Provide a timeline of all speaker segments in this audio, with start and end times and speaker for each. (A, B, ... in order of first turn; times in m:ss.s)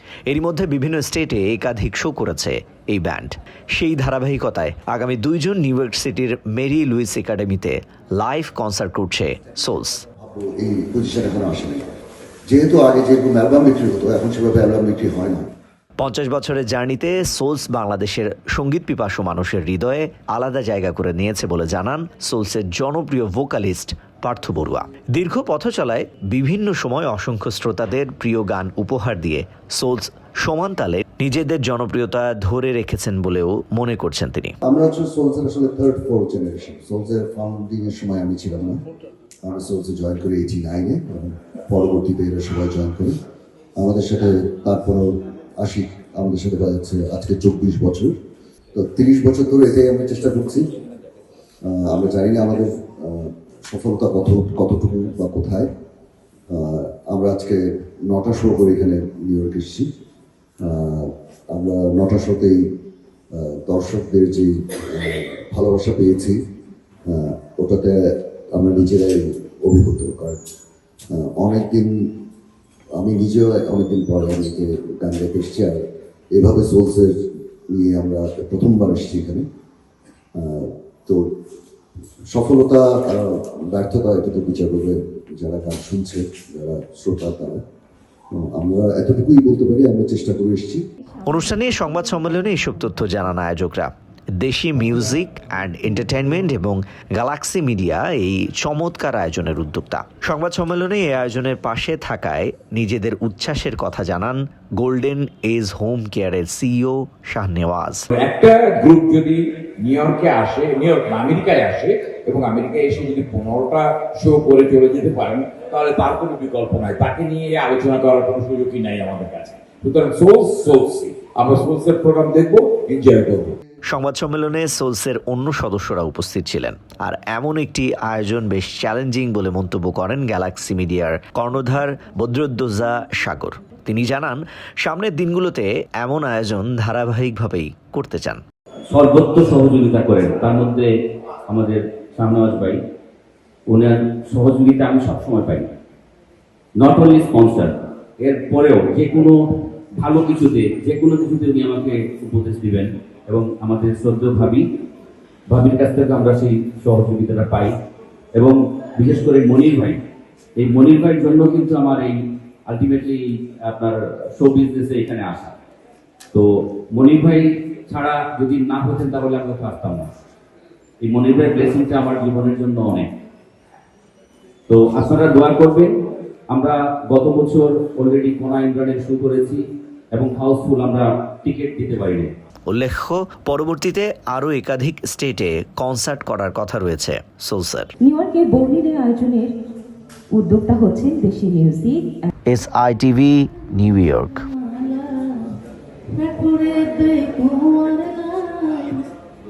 0:00.3-0:10.0 A
0:10.2-0:11.9 B
0:12.5-0:15.5 B
0:16.0-0:34.5 A
0:34.6-0:38.8 B
0:39.4-0:43.1 B
0:43.8-0:48.1 B
0:48.7-0:50.6 B
0:51.6-0:55.7 B
0:56.5-0:59.9 B
1:00.6-1:02.6 B
1:03.3-1:06.4 B
1:07.1-1:08.0 B
1:08.5-1:10.4 B
1:11.1-1:11.9 B
1:13.0-1:15.8 B
1:16.3-1:17.1 B
1:17.7-1:19.4 B
1:20.4-1:21.2 B
1:22.3-1:27.6 B
1:28.3-1:30.8 B
1:31.2-1:48.0 A
1:48.1-2:03.6 C
2:03.9-2:18.4 A
2:18.9-2:20.9 D
2:21.5-2:22.8 D
2:23.7-2:25.7 D
2:26.8-2:29.4 D
2:30.0-2:34.6 D
2:35.5-2:37.7 D
2:38.4-2:40.0 D
2:40.6-2:45.5 D
2:46.3-2:50.1 D
2:51.0-2:53.1 D
2:54.7-2:55.9 D
2:56.5-2:59.6 D
3:00.1-3:02.3 D
3:02.7-3:07.9 A
3:08.0-3:09.5 E
3:10.3-3:12.3 E
3:12.5-3:14.4 A
3:14.5-3:15.6 E
3:16.1-3:19.0 E